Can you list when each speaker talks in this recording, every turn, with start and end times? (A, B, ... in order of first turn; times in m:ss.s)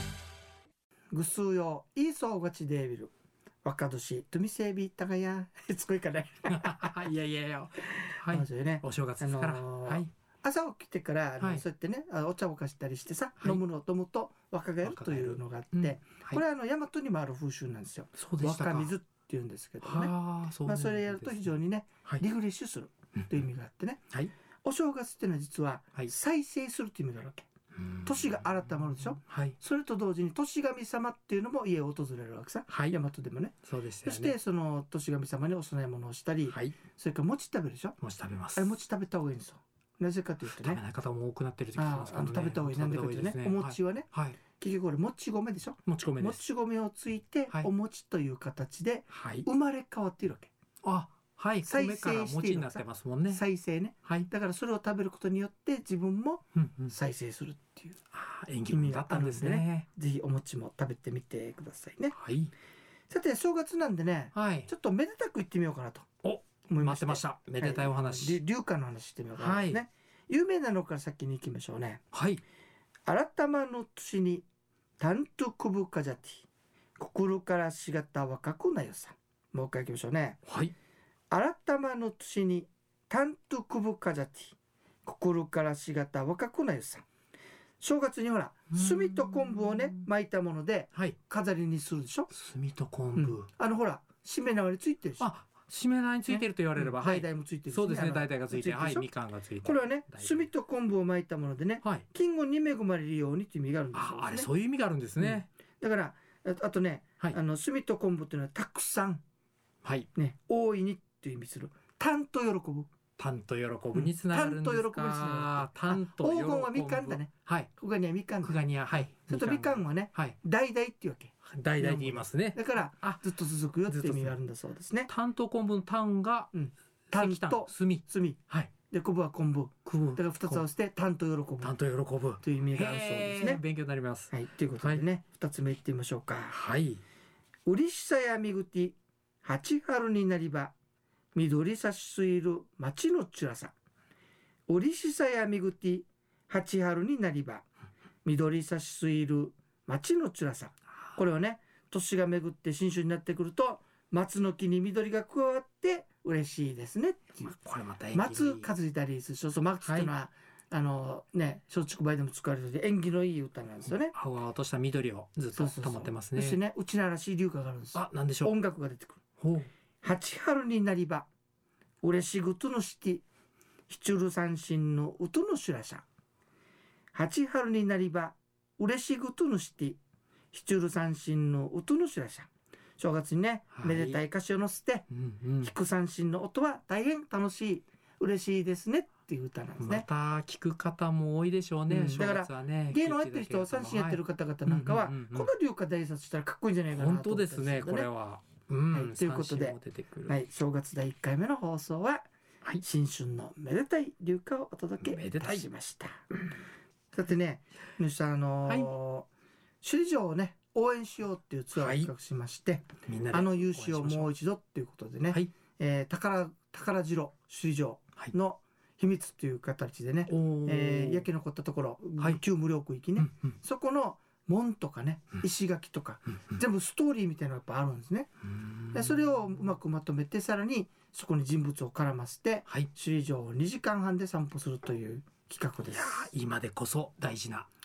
0:01.1-0:03.1 A
0:03.6-0:07.1 A
0:06.4-0:10.1 B
0:08.2-0:24.0 A
0:14.8-0:16.4 B
0:18.2-0:18.9 B
0:19.8-0:21.5 B
0:24.6-0:38.0 A
0:27.8-0:28.6 B
0:29.2-0:29.6 B
0:32.7-0:33.0 B
0:33.6-0:34.3 B
0:36.5-0:36.8 B
0:38.0-0:38.8 B
0:38.6-0:40.8 A
0:40.5-0:44.4 B
0:41.8-0:50.5 A
0:45.8-0:46.4 B
0:49.1-0:49.5 B
0:50.8-0:53.4 B
0:51.6-0:58.0 A
0:56.5-0:56.9 B
0:58.1-0:59.9 B
0:58.7-1:02.2 A
1:02.1-1:02.5 B
1:03.1-1:06.1 A
1:04.3-1:04.7 B
1:06.2-1:08.4 B
1:06.7-1:12.0 A
1:09.4-1:09.8 B
1:12.1-1:12.4 B
1:13.1-1:14.4 A
1:15.0-1:16.4 A
1:17.0-1:20.4 A
1:20.4-1:20.7 B
1:21.3-1:27.0 A
1:27.8-1:32.3 A
1:28.7-1:30.1 B
1:32.3-1:33.5 B
1:33.2-1:35.3 A
1:35.2-1:40.5 B
1:36.3-1:39.1 A
1:39.6-1:44.5 A
1:43.9-1:45.5 B
1:45.2-1:49.2 A
1:50.1-1:52.9 A
1:53.2-1:57.7 B
1:53.9-2:05.1 A
1:58.4-2:00.4 B
2:01.4-2:03.2 B
2:03.9-2:04.4 B
2:05.1-2:06.5 B
2:06.5-2:11.7 A
2:07.1-2:08.7 B
2:09.8-2:10.6 B
2:11.6-2:15.0 B
2:12.4-2:13.6 A
2:14.3-2:16.5 A
2:16.5-2:17.0 B
2:17.7-2:20.7 A
2:21.3-2:23.7 A
2:24.7-2:27.6 A
2:28.2-2:37.5 A
2:37.4-2:38.7 B
2:38.1-2:44.1 A
2:39.8-2:40.1 B
2:44.0-2:46.6 B
2:45.5-2:49.2 A
2:47.9-2:48.5 B
2:49.4-2:49.7 B
2:50.0-2:51.3 A
2:52.0-2:53.2 A
2:53.9-2:56.0 A
2:57.1-3:00.0 A
3:00.5-3:05.1 A
3:03.7-3:04.2 B
3:05.1-3:05.7 B
3:05.6-3:10.0 A
3:09.8-3:15.5 B
3:11.9-3:18.1 A
3:16.9-3:20.3 B
3:18.9-3:22.3 A
3:22.8-3:26.3 A
3:25.0-3:25.6 B
3:27.1-3:29.3 A
3:29.8-3:48.3 A
3:31.8-3:32.1 B
3:33.0-3:34.3 B
3:40.3-3:41.3 B
3:43.2-3:43.5 B
3:48.5-3:49.2 B
3:48.9-3:56.3 A
3:55.8-3:57.7 B